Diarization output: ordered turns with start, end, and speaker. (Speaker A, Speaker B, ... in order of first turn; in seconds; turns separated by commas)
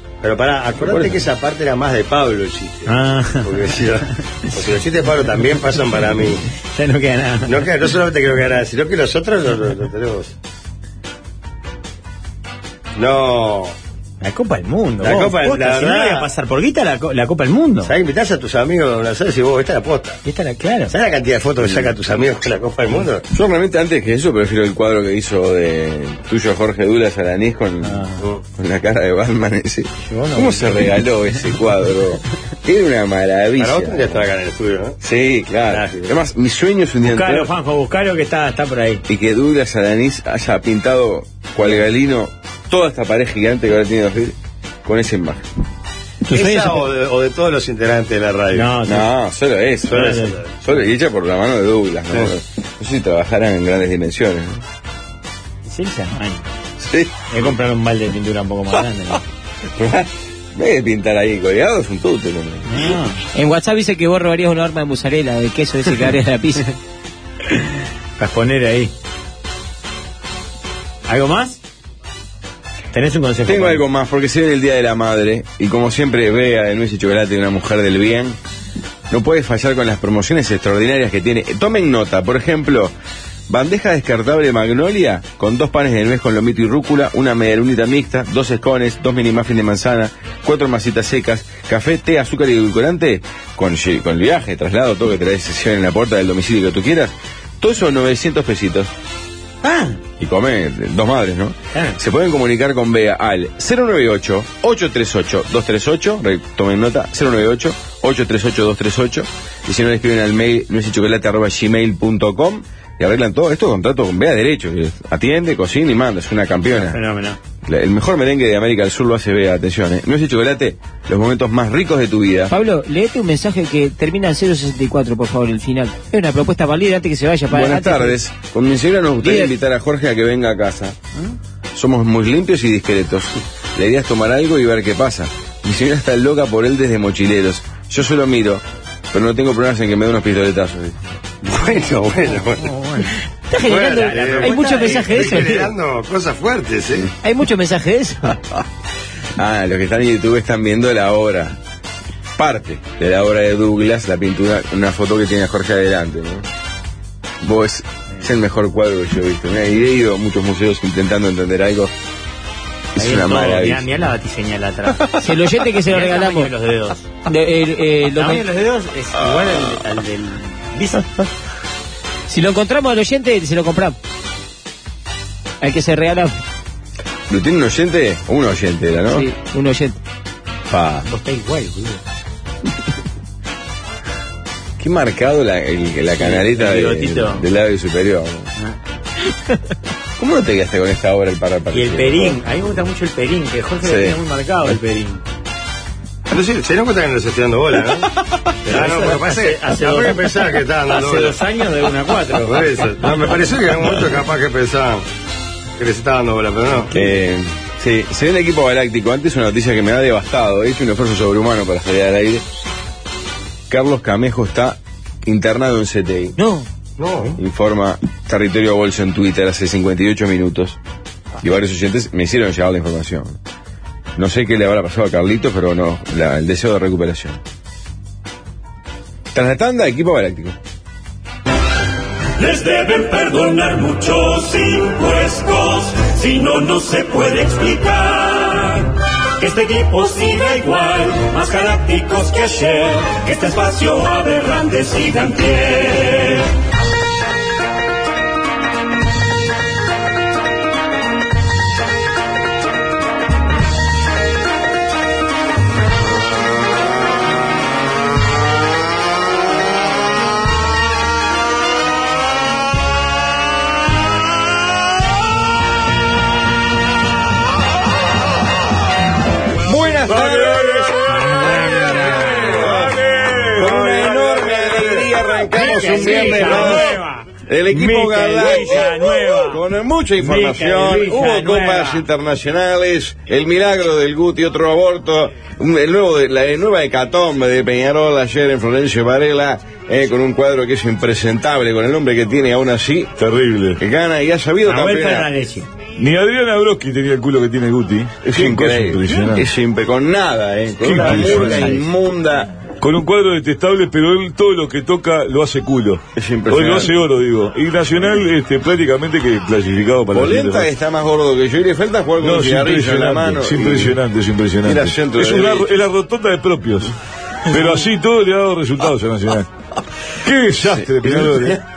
Speaker A: 0.2-6.4, Speaker B: 0.8-1.2, Speaker C: 2.9-3.5, Speaker C: 6.7-7.6, Speaker A: 7.5-10.3, Speaker A: 13.0-13.8, Speaker C: 14.2-17.9, Speaker A: 15.0-16.3, Speaker A: 17.8-20.2, Speaker C: 20.2-20.9, Speaker A: 20.9-23.2, Speaker B: 21.6-21.9, Speaker B: 23.3-34.3, Speaker C: 27.8-28.2, Speaker C: 30.0-31.0, Speaker A: 33.6-35.0, Speaker B: 35.0-37.5, Speaker A: 35.7-36.1, Speaker C: 37.0-39.0, Speaker B: 39.1-45.5, Speaker A: 46.3-48.8, Speaker C: 46.3-46.6, Speaker D: 46.3-46.9, Speaker C: 48.5-49.1, Speaker B: 48.9-54.6, Speaker C: 49.9-50.4, Speaker A: 49.9-50.5, Speaker C: 55.6-56.5, Speaker B: 56.8-57.4, Speaker C: 57.3-59.2, Speaker B: 59.8-63.0, Speaker C: 62.7-63.2, Speaker D: 63.4-66.7, Speaker C: 68.2-68.9, Speaker C: 71.1-71.6, Speaker C: 72.9-73.8, Speaker B: 73.4-78.4, Speaker B: 79.1-82.9, Speaker B: 83.5-98.9, Speaker C: 99.6-100.0, Speaker B: 100.2-117.0, Speaker C: 101.7-102.0, Speaker C: 116.7-117.4, Speaker B: 117.7-122.5, Speaker D: 122.5-128.2, Speaker B: 127.5-131.0, Speaker D: 129.2-129.5, Speaker B: 131.7-141.0, Speaker A: 141.4-142.7, Speaker C: 142.6-143.2, Speaker D: 143.5-145.7, Speaker A: 143.6-147.1, Speaker C: 144.1-145.5, Speaker D: 147.2-148.4, Speaker B: 149.4-151.6, Speaker B: 152.4-156.5, Speaker B: 157.4-161.9, Speaker B: 162.9-163.9, Speaker C: 163.0-165.1, Speaker D: 165.2-166.5, Speaker C: 165.8-167.1, Speaker D: 167.3-168.5, Speaker C: 168.2-171.1, Speaker B: 169.2-169.8, Speaker D: 172.3-174.0, Speaker D: 175.6-176.4, Speaker B: 177.3-179.3, Speaker D: 179.1-180.0, Speaker B: 180.7-181.1, Speaker C: 181.1-182.0, Speaker B: 184.8-188.5, Speaker C: 186.2-187.4, Speaker B: 190.2-192.4, Speaker C: 191.7-195.2, Speaker B: 193.8-194.2, Speaker A: 196.3-198.1, Speaker A: 198.6-201.4, Speaker C: 198.7-202.9, Speaker A: 202.4-205.1, Speaker A: 205.8-207.0, Speaker B: 206.9-212.4, Speaker B: 213.7-216.3, Speaker D: 216.4-216.7, Speaker A: 217.0-217.4, Speaker B: 217.4-220.8, Speaker B: 221.4-223.4, Speaker B: 224.2-227.4, Speaker B: 229.3-230.6, Speaker E: 232.4-246.5, Speaker B: 269.6-270.9, Speaker F: 270.1-275.2, Speaker C: 271.1-272.7, Speaker B: 272.3-273.0, Speaker B: 273.6-293.1, Speaker C: 274.0-274.4, Speaker C: 275.4-279.6, Speaker C: 280.2-282.1, Speaker F: 293.2-293.8, Speaker B: 293.8-295.3, Speaker C: 294.6-295.7, Speaker F: 296.0-299.5, Speaker B: 298.2-302.5, Speaker F: 300.8-301.8, Speaker C: 301.0-301.8, Speaker F: 302.8-310.7, Speaker B: 306.2-306.9, Speaker B: 310.1-314.0, Speaker F: 312.2-319.5, Speaker B: 314.6-315.7, Speaker F: 320.2-321.6, Speaker B: 320.6-321.6